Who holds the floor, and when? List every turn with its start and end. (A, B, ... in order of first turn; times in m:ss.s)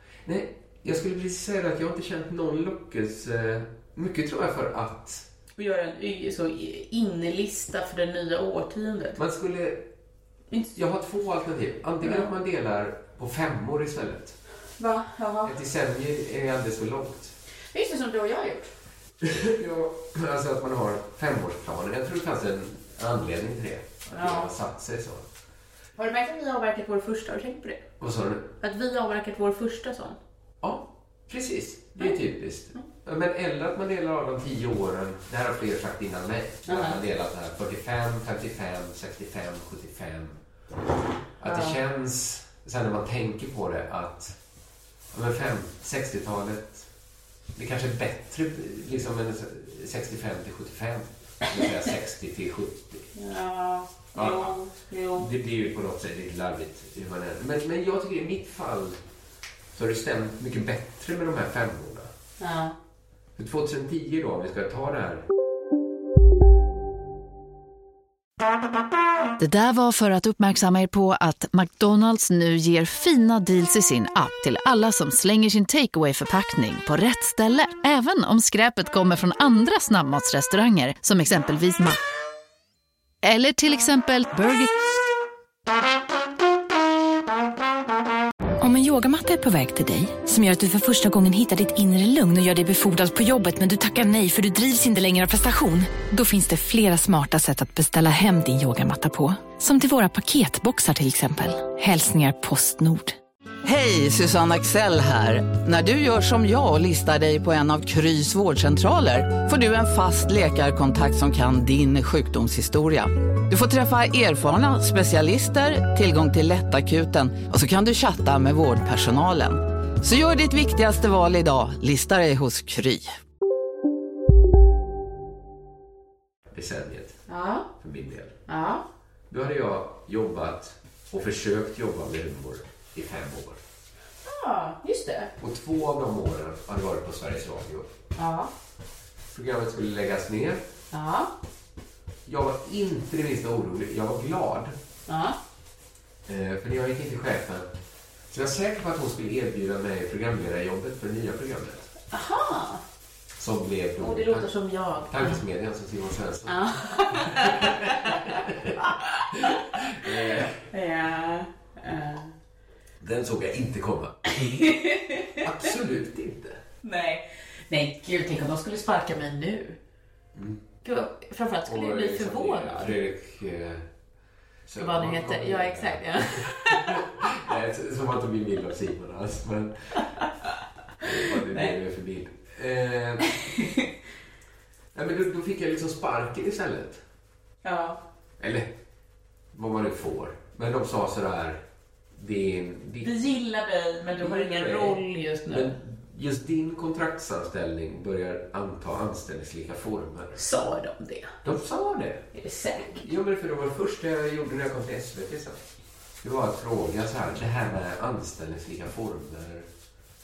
0:00.2-0:05.2 A
0:05.6-0:09.2 B
0:09.2-0:09.9 A
0:10.7-0:14.4 A
0:14.8-0:15.6 B
0:15.4-0:17.3 A
0:17.7-0:18.7 B
0:19.2-0:25.2 A
0:24.1-0:24.5 B
0:26.0-0:27.8 B
0:28.0-0:28.5 A
0:28.6-0:30.2 B
0:30.6-0:40.4 A
0:36.6-0:37.0 B
0:41.4-0:44.4 A
0:41.4-0:41.8 B
0:45.1-0:46.9 A
0:47.5-0:53.1 A
0:53.1-0:55.3 B
0:54.1-0:54.6 A
0:55.1-0:59.0 A
0:59.7-1:02.1 A
1:02.4-1:02.8 B
1:03.4-1:05.2 A
1:09.4-1:22.0 C
1:23.2-1:24.7 C
1:28.6-1:43.2 D
1:43.6-2:03.1 E
2:06.5-2:07.2 A
2:07.3-2:07.7 B
2:07.8-2:08.4 A
2:08.5-2:08.8 B
2:09.3-2:13.6 A
2:14.2-2:15.3 B
2:15.4-2:17.9 A
2:18.2-2:18.5 B
2:19.3-2:20.6 A
2:20.9-2:21.3 B
2:22.2-2:24.8 A
2:25.1-2:25.4 B
2:26.3-2:27.7 A
2:28.3-2:31.9 A
2:32.1-2:32.8 B
2:33.4-2:34.5 A
2:34.0-2:35.4 B
2:35.1-2:40.6 A
2:36.4-2:42.3 B
2:43.0-2:44.6 A
2:44.3-2:45.4 B
2:45.4-2:46.6 A
2:46.8-2:49.8 B
2:50.3-2:50.6 A
2:50.8-2:53.0 B
2:51.6-2:53.8 A
2:54.6-3:00.0 A
2:54.8-2:57.1 B
3:01.0-3:03.4 A
3:01.3-3:01.7 B
3:04.9-3:07.0 A
3:07.6-3:08.0 B
3:08.4-3:08.7 A
3:09.5-3:11.6 A
3:12.2-3:13.2 A
3:13.0-3:15.7 B
3:14.2-3:20.4 A
3:20.4-3:21.4 B
3:21.4-3:22.2 A
3:22.3-3:23.1 B
3:22.8-3:25.6 A
3:26.2-3:29.7 A